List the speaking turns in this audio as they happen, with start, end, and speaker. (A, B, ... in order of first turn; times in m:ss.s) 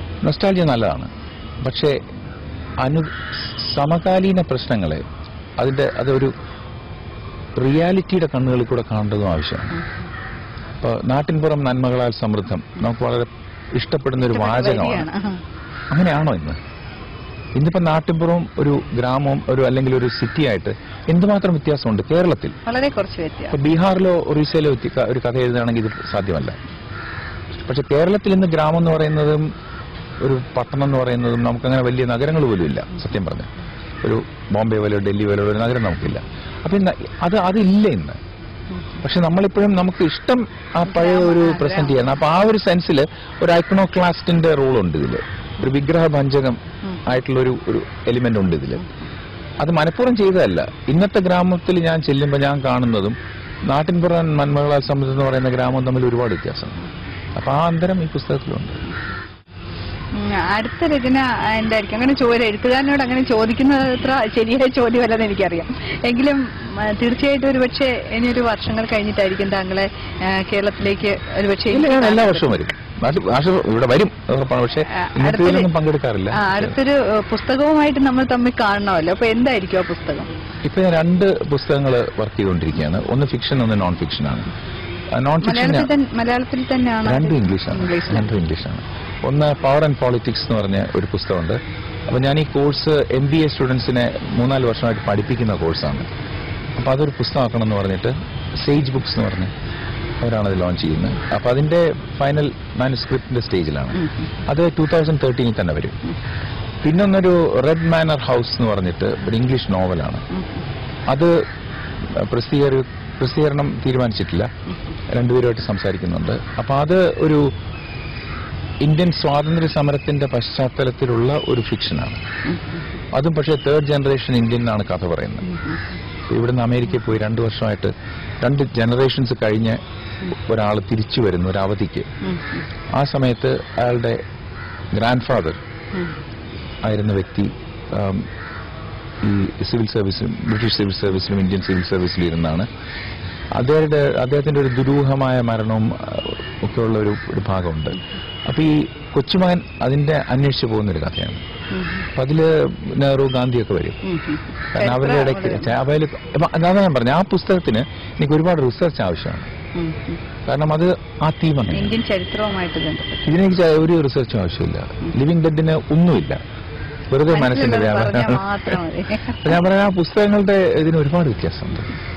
0:00.2-0:01.1 A
0:01.6-0:02.0 A
0:02.8-0:05.0 A
0:05.6-0:06.3 A
0:07.6-0:09.8 A
0:10.8-0:15.1 A
0:14.2-0:15.4 B
0:15.9-0:16.6 A
0:17.5-0:22.5 A
0:22.6-0:23.6 B
0:23.5-0:26.6 A
0:27.6-0:29.4 A
0:30.2-0:33.5 A
0:34.0-0:38.2 A
0:39.0-0:48.8 A
0:40.9-0:42.0 B
0:49.6-0:53.2 A
0:53.7-0:56.8 A
0:57.4-0:58.8 A
1:00.1-1:12.6 B
1:11.7-1:16.8 A
1:14.9-1:15.7 B
1:16.3-1:20.3 B
1:20.6-1:24.5 A
1:25.1-1:25.9 A
1:25.4-1:28.3 B
1:27.0-1:36.1 A
1:36.8-1:39.5 A
1:40.2-1:46.0 A
1:46.8-1:50.2 A
1:52.0-1:54.5 A
1:55.1-1:57.4 A
1:58.8-2:02.2 A
2:03.1-2:05.5 A
2:06.3-2:12.1 A
2:12.3-2:12.6 B
2:12.9-2:14.2 A
2:14.9-2:15.6 A
2:16.8-2:18.3 A
2:19.2-2:22.7 A
2:23.5-2:31.4 A
2:31.7-2:32.0 B
2:32.2-2:34.0 A
2:34.0-2:35.7 B
2:34.7-2:39.5 A
2:39.7-2:40.2 B
2:40.4-2:42.0 A
2:41.7-2:43.2 B
2:43.2-2:46.4 A
2:47.1-2:48.8 A
2:47.3-2:49.6 B
2:49.4-2:51.9 A